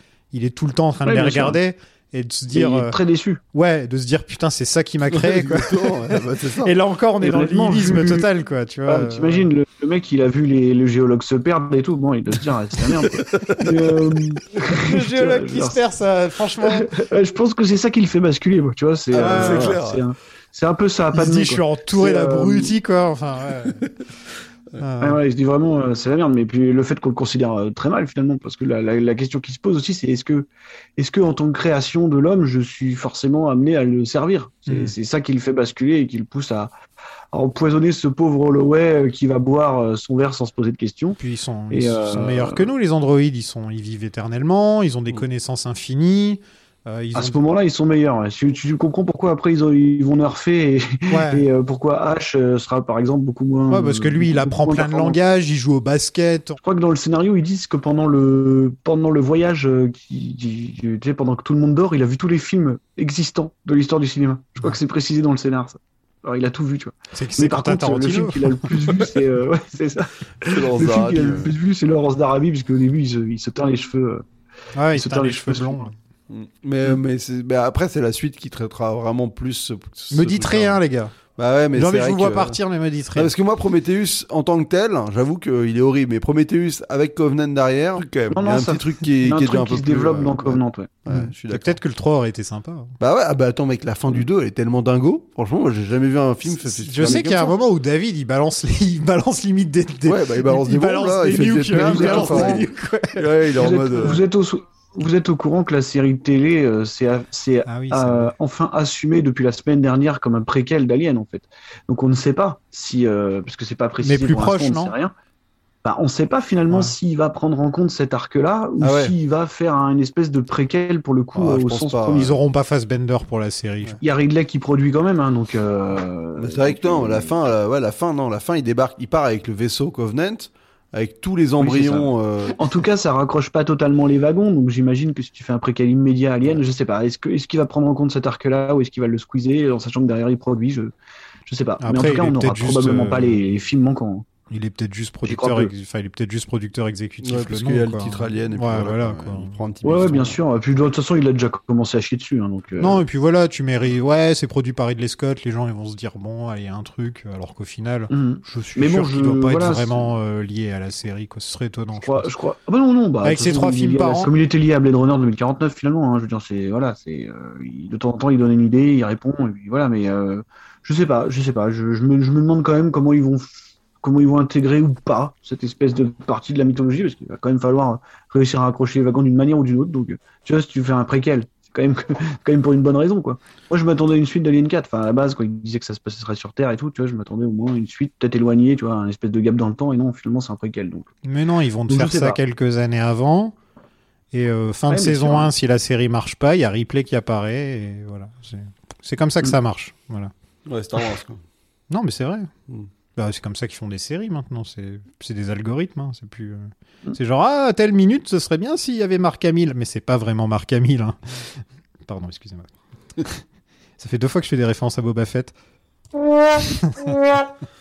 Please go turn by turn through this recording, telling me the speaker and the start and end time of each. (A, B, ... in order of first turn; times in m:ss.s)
0:00.3-0:03.0 A
0:01.0-0:01.6 B
0:02.5-0:03.4 B
0:03.5-0:09.5 A
0:05.1-0:06.7 C
0:07.2-0:08.3 B
0:08.9-0:15.8 B
0:13.0-0:14.2 C
0:14.6-0:17.0 A
0:16.6-0:22.7 B
0:19.1-0:20.0 C
0:19.2-0:19.7 A
0:21.1-0:23.8 A
0:24.8-0:25.2 A
0:25.0-0:36.7 B
0:37.3-0:41.2 B
0:41.2-0:47.4 A
0:41.7-0:42.7 B
0:47.1-0:55.2 B
0:51.1-0:51.4 A
0:53.7-0:56.6 A
0:56.6-1:14.2 B
1:07.1-1:08.7 A
1:10.4-1:11.5 C
1:14.8-1:15.9 A
1:14.9-1:15.9 B
1:16.3-1:20.8 C
1:20.1-1:21.1 A
1:21.4-1:22.6 C
1:21.7-1:23.3 A
1:23.2-1:31.8 C
1:28.3-1:31.0 B
1:31.1-1:32.9 A
1:33.0-1:37.6 C
1:36.5-1:43.2 A
1:40.0-1:44.2 C
1:41.6-1:42.6 B
1:43.6-1:55.1 B
1:47.7-1:48.3 A
1:54.0-1:54.9 A
1:55.8-2:02.4 B
1:58.8-1:59.2 C
2:01.4-2:02.3 C
2:02.1-2:04.0 A
2:04.0-2:07.4 B
2:06.4-2:12.6 C
2:11.6-2:20.9 B
2:21.4-2:24.3 B
2:21.8-2:23.4 A
2:24.5-2:29.6 A
2:25.2-2:25.7 B
2:27.2-2:30.4 C
2:29.8-2:33.0 B
2:32.8-2:42.3 A
2:38.1-2:40.1 B
2:42.0-3:11.1 B
2:43.2-2:44.3 A
3:11.2-3:13.6 A
3:11.9-3:12.4 B
3:14.3-3:20.3 A
3:14.9-3:15.5 B
3:20.6-3:21.4 C
3:21.9-3:22.5 A
3:23.2-3:31.2 A
3:32.1-3:33.4 A
3:34.0-3:35.5 A
3:36.7-3:37.2 A